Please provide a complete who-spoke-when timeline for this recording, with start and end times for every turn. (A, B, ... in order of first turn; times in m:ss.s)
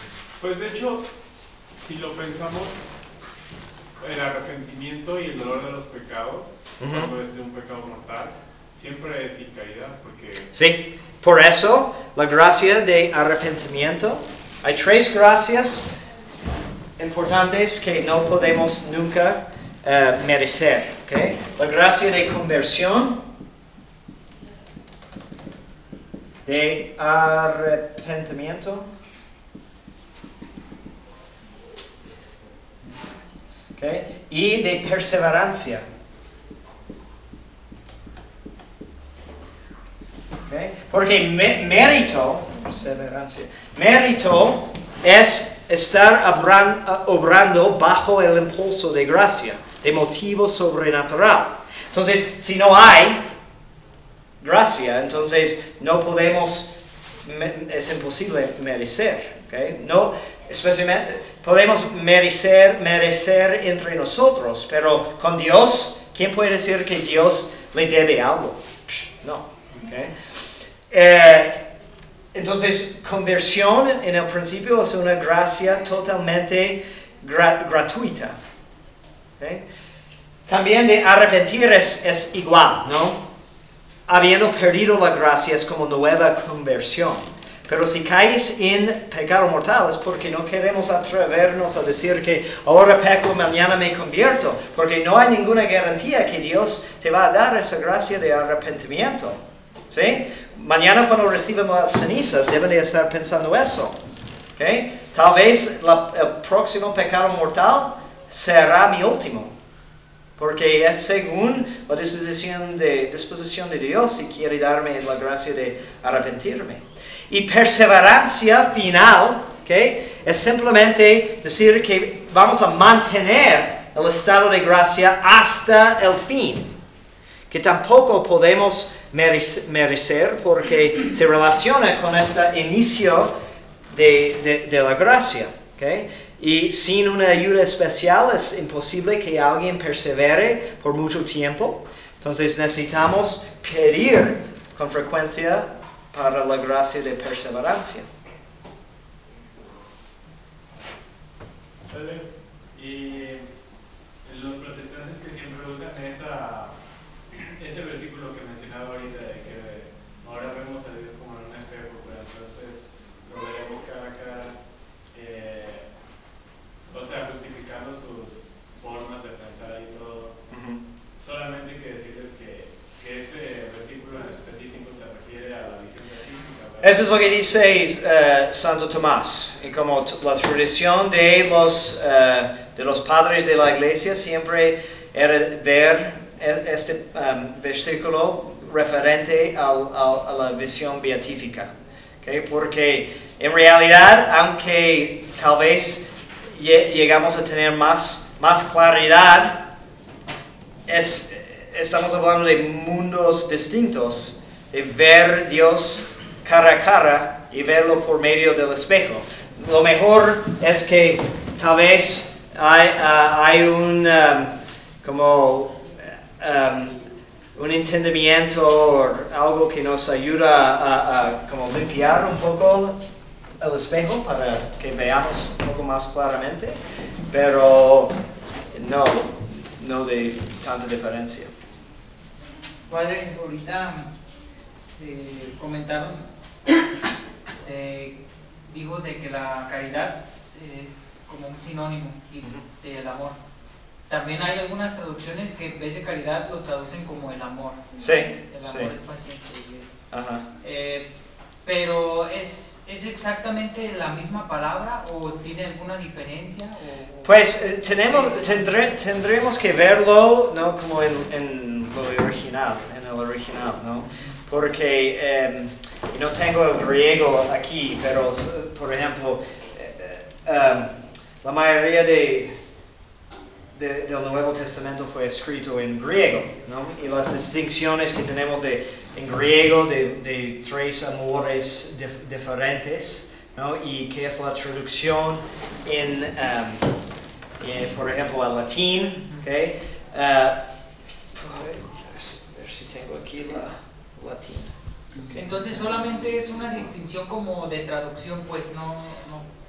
0:00.4-0:02.8 A
0:04.0-0:10.5 A
0:06.8-0:07.1 B
0:10.5-0:15.9 B
0:17.0-0:23.2 B
0:26.4-0:28.9 B
0:33.8-0:35.8 B
0:40.5-0:53.2 B
0:54.4-1:10.2 B
1:10.9-1:11.7 B
1:12.3-1:18.4 B
1:19.4-1:19.6 B
1:20.5-1:23.2 B
1:24.1-1:44.0 B
1:44.6-1:49.5 B
1:50.4-2:06.7 B
2:07.5-2:13.3 B
2:13.9-2:28.1 B
2:31.9-2:33.5 A
2:34.1-2:50.4 A
2:50.5-2:50.8 B
2:51.2-2:57.2 A
2:56.8-3:11.7 B
3:12.2-3:19.6 B
3:20.9-3:37.0 B
3:37.6-3:43.0 B
3:43.6-3:46.8 B
3:47.3-3:48.2 B
3:48.7-3:51.5 B
3:52.9-3:54.1 C
3:55.0-3:56.8 C
3:57.6-4:03.4 C
4:04.1-4:09.9 C
4:08.0-4:08.9 B
4:10.1-4:10.4 B
4:10.6-4:11.1 C
4:11.6-4:18.8 C
4:17.2-4:32.5 B
4:33.8-4:46.9 B
4:47.6-4:50.6 B
4:51.3-4:56.0 B
4:55.1-4:59.5 C